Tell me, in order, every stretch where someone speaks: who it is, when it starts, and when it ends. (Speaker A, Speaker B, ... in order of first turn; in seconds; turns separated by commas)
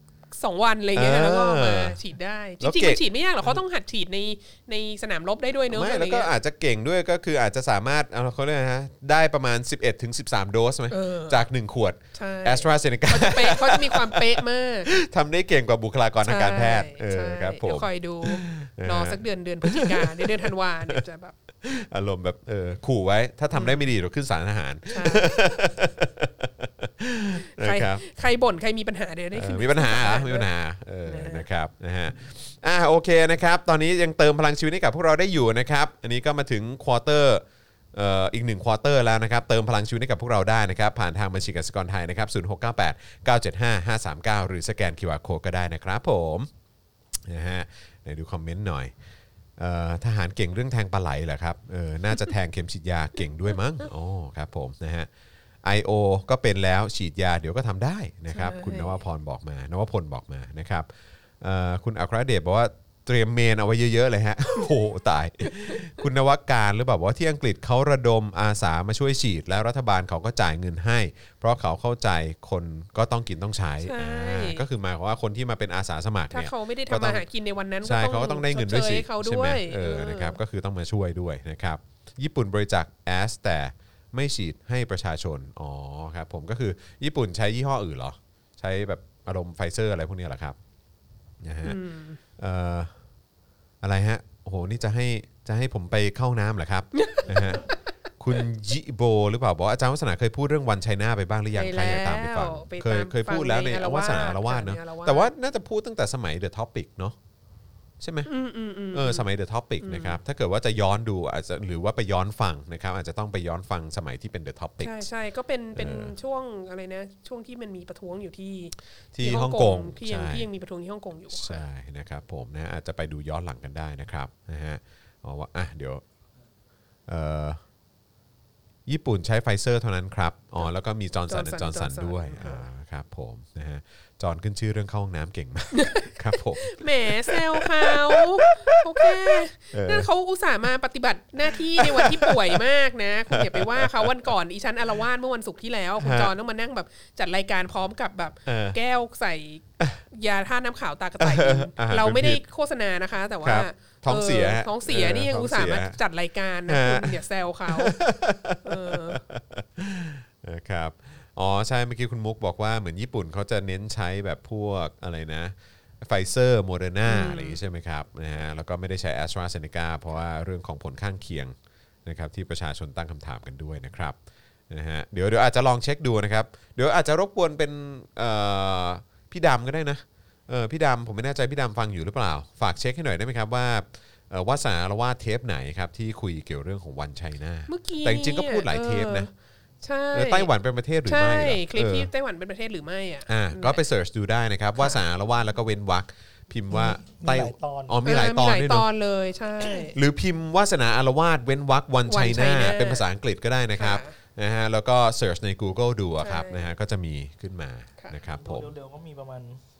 Speaker A: 0.3-6.3, Speaker B: 0.9-2.0, Speaker B: 2.6-3.6, Speaker B: 5.7-21.0, Speaker A: 10.9-11.4, Speaker A: 12.1-14.9, Speaker A: 16.2-21.4, Speaker B: 21.6-28.0, Speaker A: 23.5-23.8, Speaker A: 24.9-25.4, Speaker A: 27.4-30.5, Speaker B: 29.3-37.4, Speaker A: 31.1-31.4, Speaker B: 37.9-46.5, Speaker B: 47.2-48.9, Speaker B: 49.6-55.1, Speaker B: 55.6-60.9, Speaker A: 58.3-59.0, Speaker B: 61.4-77.2, Speaker A: 65.4-65.8, Speaker A: 73.8-74.6, Speaker A: 76.3-80.4, Speaker B: 77.8-90.5, Speaker B: 91.4-91.8, Speaker A: 91.6-92.2, Speaker B: 92.4-92.9, Speaker B: 93.8-97.6, Speaker A: 96.9-97.8, Speaker B: 98.2-107.2, Speaker A: 101.5-105.3, Speaker B: 108.0-108.3, Speaker A: 108.2-109.2, Speaker B: 108.9-115.0, Speaker A: 109.8-110.2, Speaker A: 114.8-121.6, Speaker B: 115.7-116.1, Speaker B: 119.1-120.5, Speaker B: 121.3-126.0, Speaker B: 127.1-127.6, Speaker B: 128.8-140.1, Speaker A: 131.3-132.7, Speaker A: 135.7-158.0, Speaker B: 141.5-142.6, Speaker B: 143.3-144.3, Speaker B: 146.0-146.3, Speaker B: 148.4-148.8, Speaker B: 151.2-152.4, Speaker B: 153.4-156.0, Speaker B: 156.7-174.2, Speaker A: 158.6-159.2, Speaker A: 167.0-167.6, Speaker B: 174.7-189.3, Speaker A: 187.7-189.3, Speaker A: 189.8-190.5, Speaker B: 190.1-192.1, Speaker A: 191.0-193.8, Speaker B: 193.3-198.9, Speaker A: 194.8-195.0, Speaker C: 196.7-198.0, Speaker A: 198.0-199.9, Speaker B: 199.9-208.7, Speaker A: 202.1-203.1, Speaker A: 203.8-204.1, Speaker A: 206.2-206.7, Speaker C: 208.3-209.6